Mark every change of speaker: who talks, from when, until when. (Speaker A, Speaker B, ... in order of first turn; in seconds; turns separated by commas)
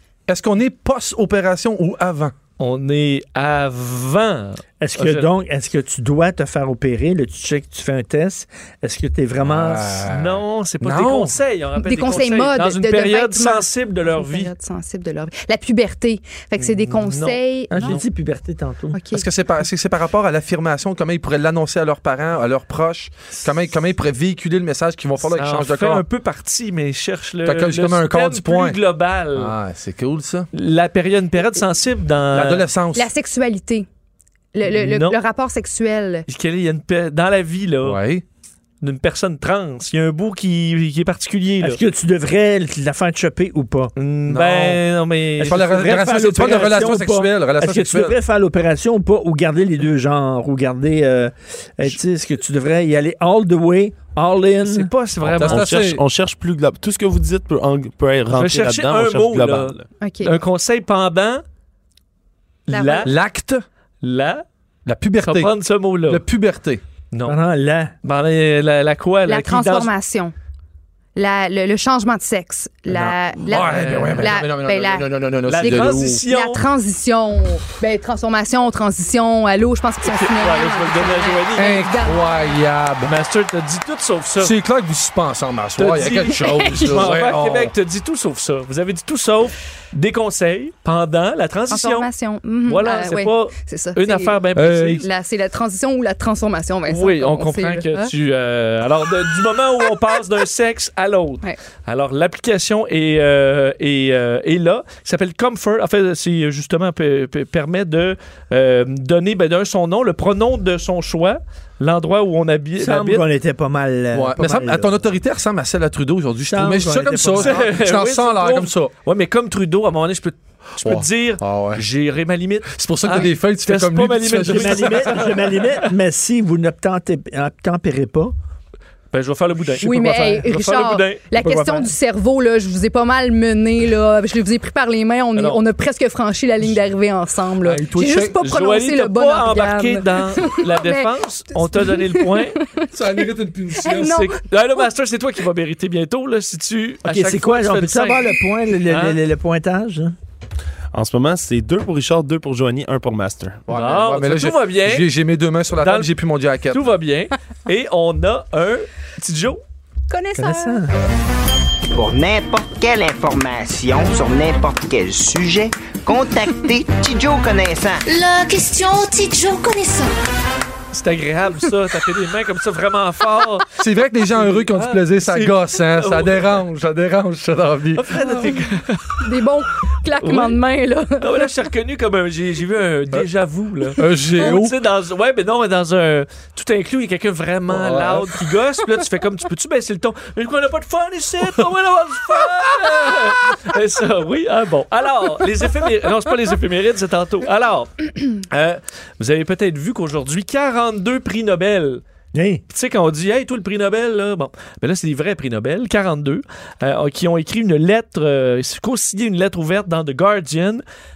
Speaker A: 0.3-2.3, Speaker B: 2.6-5.3, Speaker C: 4.8-10.1, Speaker A: 9.4-11.4, Speaker B: 10.1-14.5, Speaker D: 11.8-18.0, Speaker B: 16.6-18.0, Speaker C: 17.7-19.0, Speaker D: 18.9-19.2, Speaker A: 19.1-26.0, Speaker B: 25.2-29.5, Speaker A: 27.4-28.8, Speaker A: 29.3-30.5, Speaker B: 30.5-32.6, Speaker A: 32.3-33.1, Speaker D: 32.9-33.9, Speaker D: 34.5-36.2, Speaker B: 34.7-35.2, Speaker B: 36.3-38.0, Speaker A: 37.8-38.2, Speaker B: 38.8-41.8, Speaker C: 41.6-43.9, Speaker B: 44.0-46.0, Speaker A: 44.3-44.8, Speaker A: 45.4-48.1, Speaker C: 45.4-54.9, Speaker B: 54.6-55.7, Speaker E: 55.2-59.9, Speaker A: 55.3-56.0, Speaker B: 58.3-61.4, Speaker D: 60.0-60.3, Speaker B: 62.7-63.1, Speaker D: 62.7-63.1, Speaker A: 63.0-63.6, Speaker B: 64.0-64.4, Speaker A: 64.8-65.5, Speaker B: 65.2-66.2, Speaker A: 66.0-66.8, Speaker B: 67.1-67.4, Speaker C: 67.2-67.9, Speaker B: 68.0-69.9, Speaker D: 69.3-70.3, Speaker D: 71.2-82.4, Speaker B: 73.1-74.3, Speaker A: 73.4-76.2, Speaker B: 75.5-76.6, Speaker B: 80.0-81.8, Speaker A: 81.5-83.1, Speaker B: 83.0-84.5, Speaker A: 84.4-87.7, Speaker B: 85.8-92.1, Speaker D: 86.1-87.2, Speaker D: 91.7-94.4, Speaker B: 92.6-95.0, Speaker A: 94.5-95.0, Speaker D: 95.0-98.1, Speaker B: 96.9-113.2, Speaker C: 112.8-115.0, Speaker A: 114.1-118.9, Speaker C: 116.5-117.7, Speaker B: 117.3-125.9, Speaker A: 120.8-121.8, Speaker A: 122.7-125.3, Speaker C: 124.4-128.3, Speaker B: 129.1-131.2, Speaker D: 129.8-144.8, Speaker C: 129.8-130.4, Speaker C: 131.4-131.9, Speaker B: 135.3-135.6, Speaker A: 137.6-138.4, Speaker B: 138.4-142.6, Speaker A: 142.9-144.2, Speaker B: 144.0-149.2, Speaker C: 147.0-150.2, Speaker E: 150.9-153.6, Speaker A: 153.7-156.8, Speaker B: 153.7-155.1, Speaker B: 155.8-156.1, Speaker B: 156.7-159.6, Speaker D: 160.1-160.8, Speaker C: 160.4-160.9, Speaker F: 161.9-168.1, Speaker G: 168.1-170.1, Speaker B: 170.9-173.6, Speaker A: 173.8-178.2, Speaker B: 174.3-176.6, Speaker B: 177.9-179.2, Speaker D: 178.2-178.6, Speaker D: 179.2-181.5, Speaker B: 180.2-180.6, Speaker B: 181.2-202.0, Speaker A: 184.0-184.7, Speaker A: 187.7-188.3, Speaker C: 202.3-202.6, Speaker B: 202.7-210.8